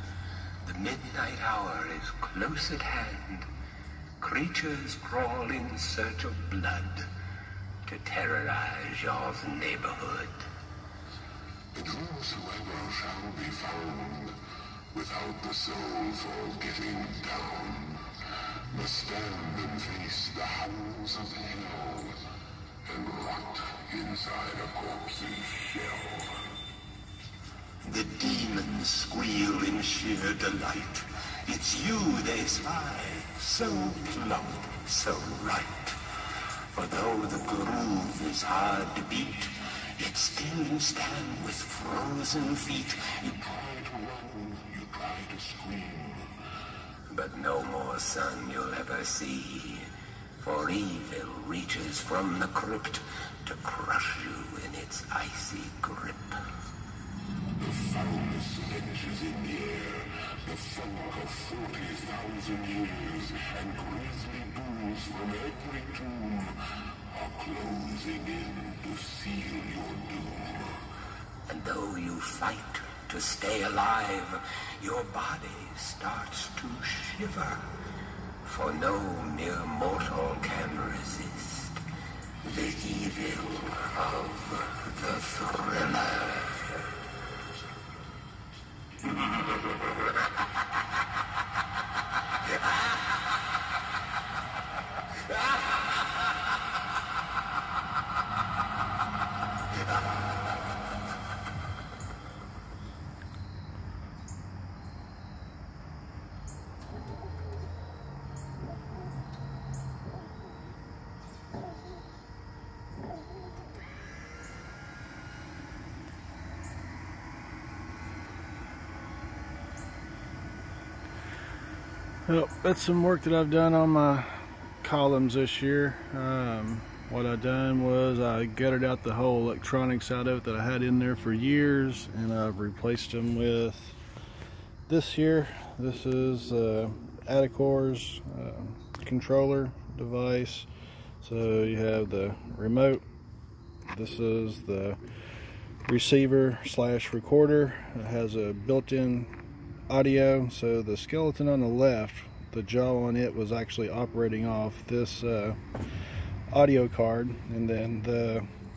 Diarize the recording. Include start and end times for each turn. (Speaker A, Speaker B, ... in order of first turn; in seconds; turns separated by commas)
Speaker A: 0.6-3.5, Speaker A: 4.2-7.1, Speaker A: 7.9-10.5, Speaker B: 11.7-14.4, Speaker B: 14.9-18.1, Speaker B: 18.7-22.2, Speaker B: 22.9-26.4, Speaker A: 27.8-43.4, Speaker B: 43.4-46.3, Speaker A: 47.1-56.5, Speaker B: 57.6-70.8, Speaker A: 71.5-77.7, Speaker A: 78.4-81.8, Speaker A: 82.4-86.8, Speaker C: 122.3-134.0, Speaker C: 134.9-140.7, Speaker C: 141.2-143.0, Speaker C: 143.9-145.0, Speaker C: 145.9-149.3, Speaker C: 149.9-155.6, Speaker C: 156.5-158.5